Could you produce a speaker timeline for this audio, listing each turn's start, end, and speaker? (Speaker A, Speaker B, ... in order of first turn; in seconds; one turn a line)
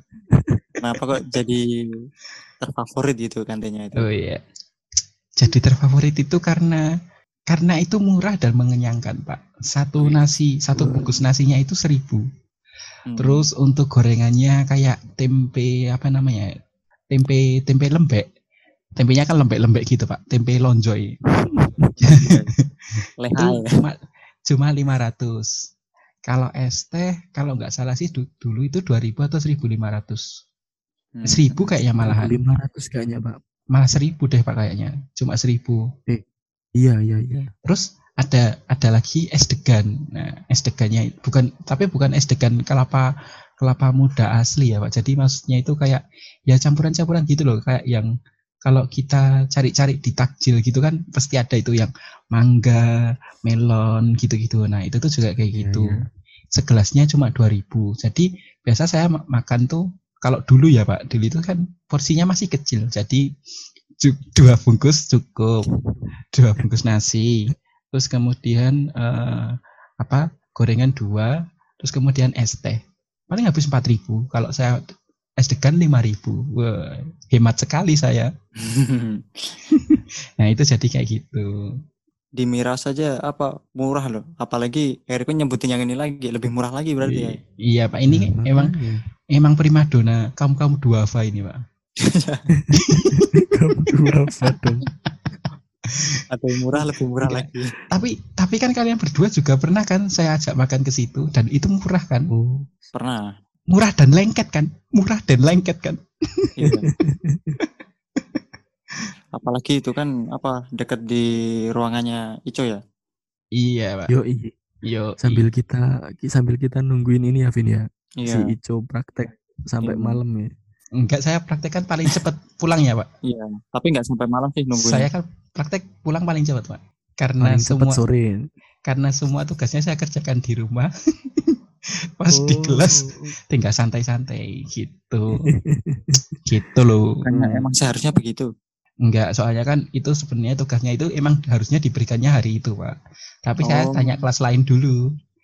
Speaker A: 0.3-0.7
Speaker B: 0.8-1.6
Speaker B: 2.6-4.1
Speaker C: 4.0-4.4
Speaker C: 5.3-6.8
Speaker C: 7.5-12.2
Speaker A: 10.8-11.1
Speaker B: 13.1-13.5
Speaker C: 13.2-16.5
Speaker C: 17.1-18.3
Speaker C: 18.9-21.2
Speaker A: 21.4-22.3
Speaker B: 22.0-22.5
Speaker C: 22.1-25.7
Speaker B: 23.2-23.8
Speaker C: 26.2-30.4
Speaker B: 31.1-31.5
Speaker C: 31.2-32.4
Speaker A: 32.0-33.4
Speaker C: 33.7-35.8
Speaker A: 36.8-37.5
Speaker C: 37.6-43.1
Speaker C: 43.6-48.1
Speaker C: 48.6-56.0
Speaker A: 55.5-56.0
Speaker C: 56.5-63.3
Speaker C: 64.0-65.6
Speaker C: 66.3-78.3
Speaker B: 78.6-79.5
Speaker C: 79.7-81.5
Speaker B: 82.4-87.3
Speaker C: 87.6-88.7
Speaker A: 88.1-89.0
Speaker C: 89.3-91.6
Speaker B: 92.0-92.4
Speaker A: 92.5-94.8
Speaker C: 92.8-93.3
Speaker C: 94.4-95.1
Speaker C: 95.8-102.3
Speaker B: 96.3-97.7
Speaker A: 102.3-102.7
Speaker B: 102.9-103.3
Speaker C: 103.7-106.5
Speaker B: 106.6-106.9
Speaker A: 106.6-107.6
Speaker C: 107.6-108.4
Speaker B: 109.3-112.8
Speaker C: 113.5-114.1
Speaker A: 114.1-114.5
Speaker C: 114.8-115.4
Speaker A: 115.2-120.5
Speaker B: 118.2-118.5
Speaker B: 119.8-120.2
Speaker C: 121.0-123.0
Speaker B: 123.2-125.1
Speaker C: 124.8-128.0
Speaker A: 127.4-128.3
Speaker C: 128.8-131.6
Speaker C: 132.2-135.5
Speaker A: 132.3-133.3
Speaker A: 135.4-136.2
Speaker C: 136.4-137.2
Speaker B: 137.2-138.5
Speaker A: 137.2-137.7
Speaker C: 139.0-145.0
Speaker B: 143.6-144.2